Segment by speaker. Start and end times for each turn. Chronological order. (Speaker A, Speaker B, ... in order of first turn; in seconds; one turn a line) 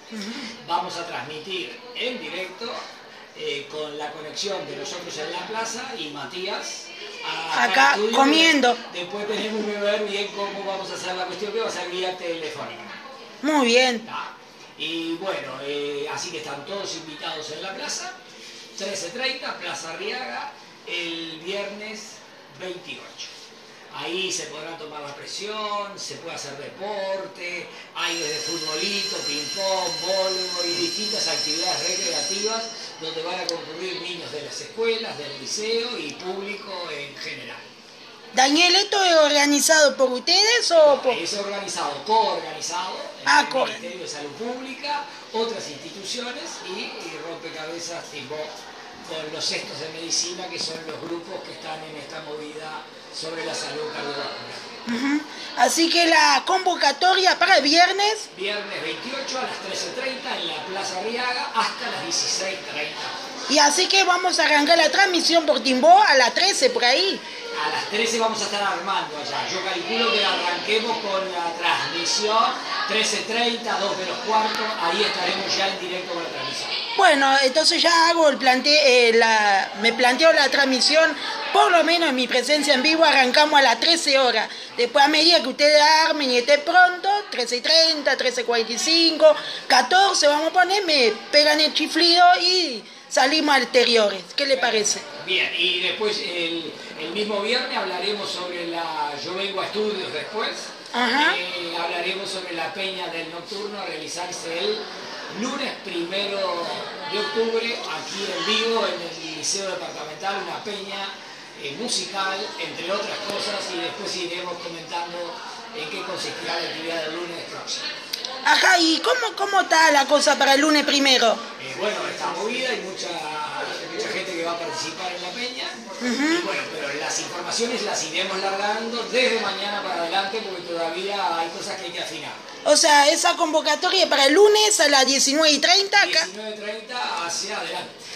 Speaker A: 0.1-0.5
Speaker B: 0.6-2.8
Speaker B: 3.4-13.0
Speaker A: 7.5-8.8
Speaker A: 13.4-14.1
Speaker B: 14.0-18.2
Speaker B: 18.8-23.3
Speaker B: 23.9-37.7
Speaker A: 38.3-41.2
Speaker B: 40.8-48.5
Speaker A: 43.3-43.8
Speaker B: 49.0-54.8
Speaker A: 54.9-58.3
Speaker B: 58.3-63.2
Speaker A: 63.5-67.2
Speaker B: 67.5-76.8
Speaker A: 77.0-95.0
Speaker B: 94.5-117.9
Speaker A: 100.9-101.4
Speaker A: 118.5-121.4
Speaker B: 121.6-132.4
Speaker A: 126.0-126.5
Speaker A: 132.7-136.3
Speaker B: 135.9-137.9